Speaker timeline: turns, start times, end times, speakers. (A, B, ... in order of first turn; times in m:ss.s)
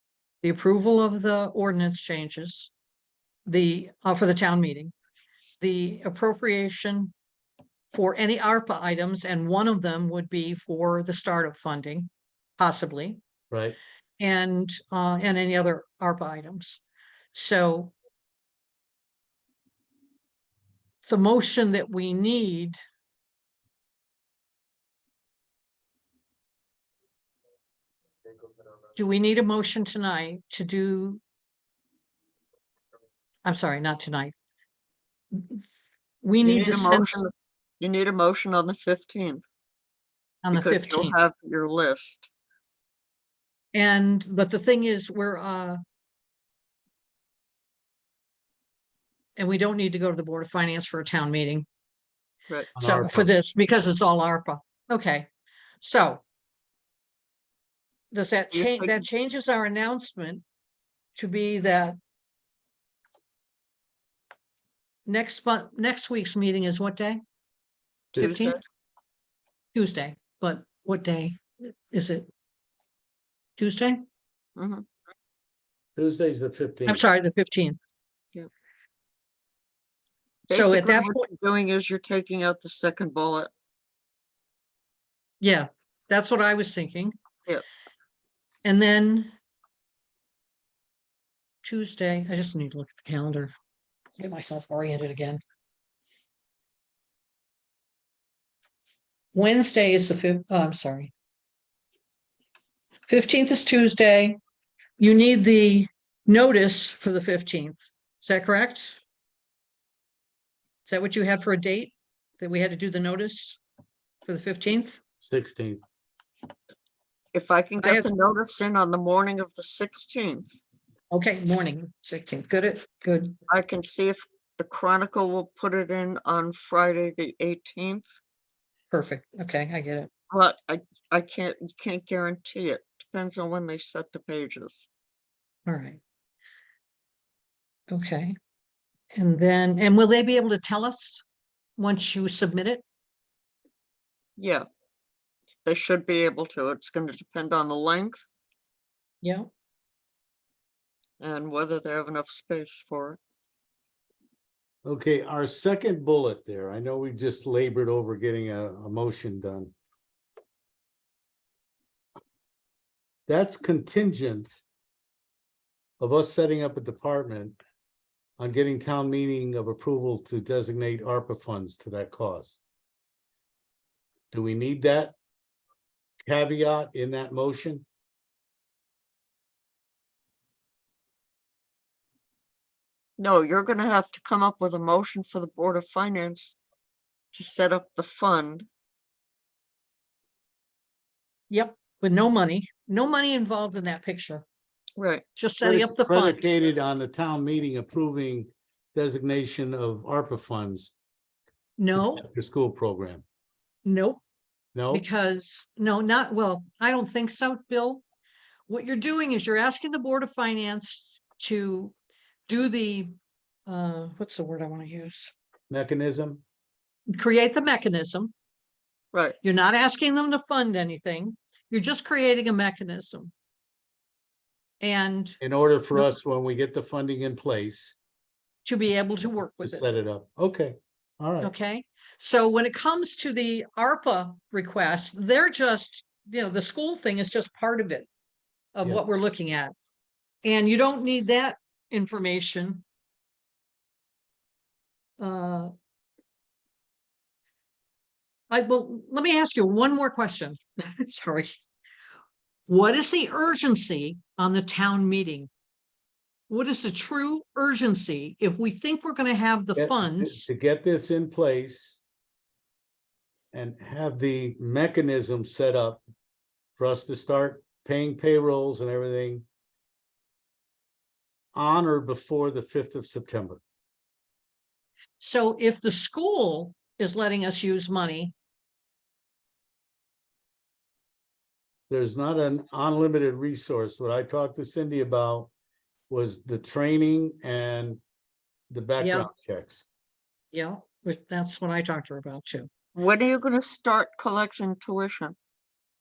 0:00.4-0:02.7 A
0:03.5-0:04.9 A
0:05.6-0:07.1 A
0:07.9-0:13.2 A
0:13.5-0:13.8 B
0:14.2-0:16.8 A
0:17.3-0:17.9 A
0:21.0-0:22.8 A
0:29.0-0:31.2 A
0:33.4-0:34.3 A
0:35.3-0:35.6 A
0:36.2-0:37.3 A
0:36.4-0:39.4 C
0:40.4-0:41.1 A
0:40.5-0:42.3 C
0:43.7-0:45.8 A
0:49.4-0:51.7 A
0:52.7-0:53.3 B
0:52.8-0:55.3 A
0:55.8-0:56.2 A
0:58.1-1:00.4 A
0:58.5-0:59.0 C
1:01.1-1:02.0 A
1:05.1-1:07.2 A
1:08.1-1:08.6 C
1:08.2-1:08.6 A
1:09.7-1:12.3 A
1:13.6-1:14.0 A
1:14.6-1:14.8 C
1:16.0-1:17.0 B
1:16.9-1:17.8 A
1:20.5-1:21.2 A
1:20.5-1:23.5 C
1:25.4-1:27.1 A
1:28.6-1:29.3 A
1:31.6-1:33.5 A
1:34.2-1:35.4 A
1:39.3-1:41.1 A
1:43.1-1:44.4 A
1:45.0-1:49.0 A
1:50.8-1:53.6 A
1:54.2-1:55.0 A
1:55.2-1:55.8 B
1:57.3-2:00.6 C
1:57.8-1:58.1 A
2:01.1-2:03.4 A
2:03.5-2:08.1 C
2:08.9-2:10.1 A
2:10.3-2:14.9 C
2:15.7-2:16.0 A
2:17.9-2:18.4 A
2:19.1-2:21.2 A
2:21.8-2:22.8 A
2:24.4-2:24.6 C
2:25.6-2:28.2 C
2:29.2-2:29.5 A
2:31.2-2:33.2 C
2:34.8-2:39.7 B
2:43.3-2:44.6 B
2:46.0-2:47.6 B
2:48.4-2:52.6 B
2:54.3-2:55.1 B
2:56.2-2:57.8 B
3:03.2-3:06.6 C
3:07.3-3:08.7 C
3:11.5-3:14.4 A
3:15.0-3:15.2 C
3:15.4-3:16.5 A
3:15.6-3:20.9 B
3:21.8-3:22.2 A
3:22.0-3:23.2 B
3:23.8-3:24.2 A
3:24.7-3:25.0 B
3:24.9-3:28.0 A
3:28.7-3:31.9 A
3:32.5-3:33.1 A
3:33.7-3:35.3 A
3:35.7-3:36.4 B
3:37.1-3:38.3 A
3:39.4-3:43.3 A
3:44.8-3:45.4 A
3:45.4-3:48.0 B
3:48.6-3:49.9 A
3:49.6-3:51.5 B
3:51.4-3:58.1 A
3:58.7-3:59.7 A
4:00.4-4:02.8 A
4:05.2-4:05.7 A
4:08.5-4:11.6 A
4:12.7-4:15.5 A
4:16.5-4:20.5 A
4:19.8-4:22.0 B
4:23.5-4:26.0 B
4:26.8-4:29.4 B
4:31.5-4:33.6 B
4:35.2-4:38.3 A
4:41.9-4:45.5 B
4:46.1-4:48.0 B
4:48.7-4:49.8 B
4:49.0-4:49.3 A
4:50.5-4:52.7 A
4:53.0-4:55.3 C